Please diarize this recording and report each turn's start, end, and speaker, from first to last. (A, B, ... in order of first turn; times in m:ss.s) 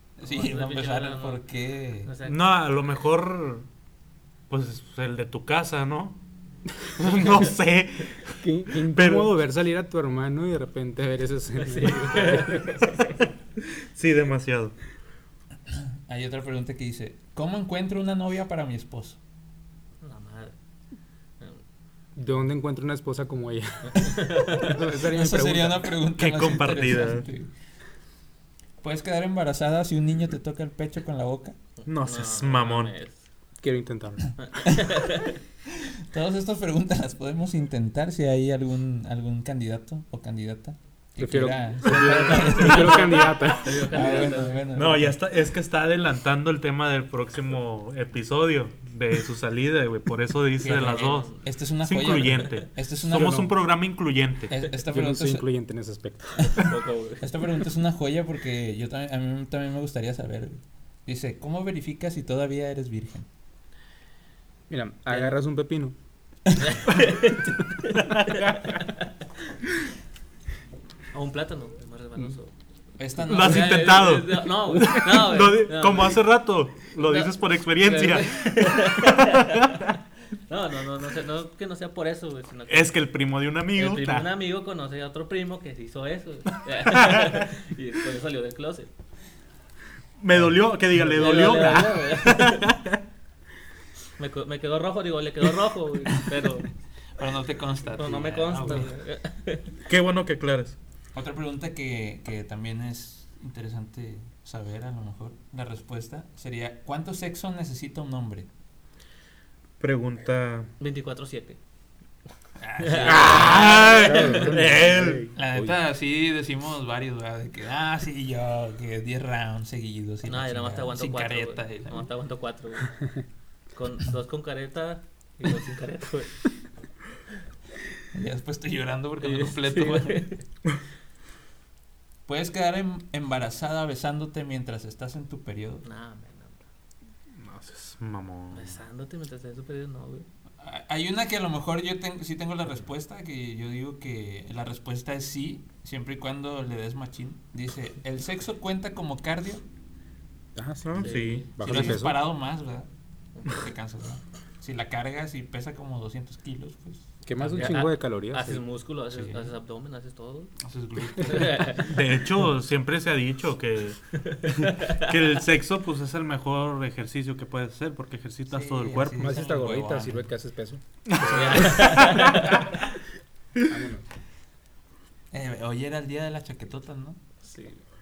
0:00.2-0:02.1 A
0:00.2-0:01.4 B
0:02.0-0:02.4 B
0:02.2-0:03.7 C
0:04.5-0:06.2 C
0:06.9-0:08.4 C
0:08.4-0:12.8 D
0:08.9-0:09.4 C
0:11.6-0:13.1 B
0:13.9-0:14.8 C
0:15.7-0:19.2 A
0:20.0-0:20.5 B
0:22.2-0:25.9 D
0:24.0-0:24.7 B
0:25.1-0:27.5 A
0:26.2-0:27.2 C
0:28.8-0:31.6 A
0:31.8-0:33.2 B
0:31.9-0:32.9 C
0:33.6-0:34.3 D
0:34.4-0:35.4 B
0:35.8-0:45.2 A
0:41.2-0:44.0 D
0:41.9-0:44.6 B
0:44.7-0:54.5 C
0:50.6-0:53.5 A
0:54.5-0:55.4 A
0:54.9-0:56.7 D
0:56.4-0:57.2 B
0:57.2-1:03.3 A
1:04.7-1:05.9 D
1:06.6-1:09.1 B
1:07.9-1:08.7 C
1:11.1-1:12.5 B
1:13.0-1:14.1 A
1:13.3-1:19.9 C
1:13.4-1:16.2 B
1:16.9-1:19.9 B
1:20.5-1:23.0 B
1:22.7-1:24.3 C
1:23.7-1:28.9 B
1:26.9-1:27.2 C
1:30.2-1:33.0 C
1:31.0-1:32.7 B
1:34.2-1:36.7 B
1:37.2-1:38.9 A
1:38.0-1:39.8 B
1:39.8-1:40.8 C
1:41.1-1:48.5 A
1:49.8-1:50.7 C
1:50.8-1:51.6 B
1:52.6-1:53.9 A
1:52.8-1:54.5 B
1:53.0-1:55.3 C
1:53.8-1:55.8 D
1:55.3-2:01.9 A
2:00.3-2:03.0 B
2:03.7-2:06.5 B
2:08.1-2:10.3 A
2:09.2-2:10.4 B
2:12.2-2:15.8 A
2:15.8-2:16.6 B
2:17.4-2:18.8 C
2:18.5-2:20.3 B
2:20.6-2:29.6 A
2:30.5-2:32.2 D
2:30.8-2:32.0 C
2:31.0-2:31.5 B
2:31.6-2:32.9 A
2:33.4-2:37.8 A
2:37.2-2:38.6 D
2:37.6-2:40.5 B
2:39.1-2:39.5 A
2:40.6-2:41.8 A
2:41.2-2:41.9 B
2:41.8-2:49.4 C
2:44.1-2:45.1 B
2:48.5-2:50.3 A
2:49.2-2:52.5 D
2:51.1-2:52.5 C
2:51.2-2:52.7 B
2:53.6-2:54.0 D
2:55.3-2:57.2 A
2:57.4-2:57.8 B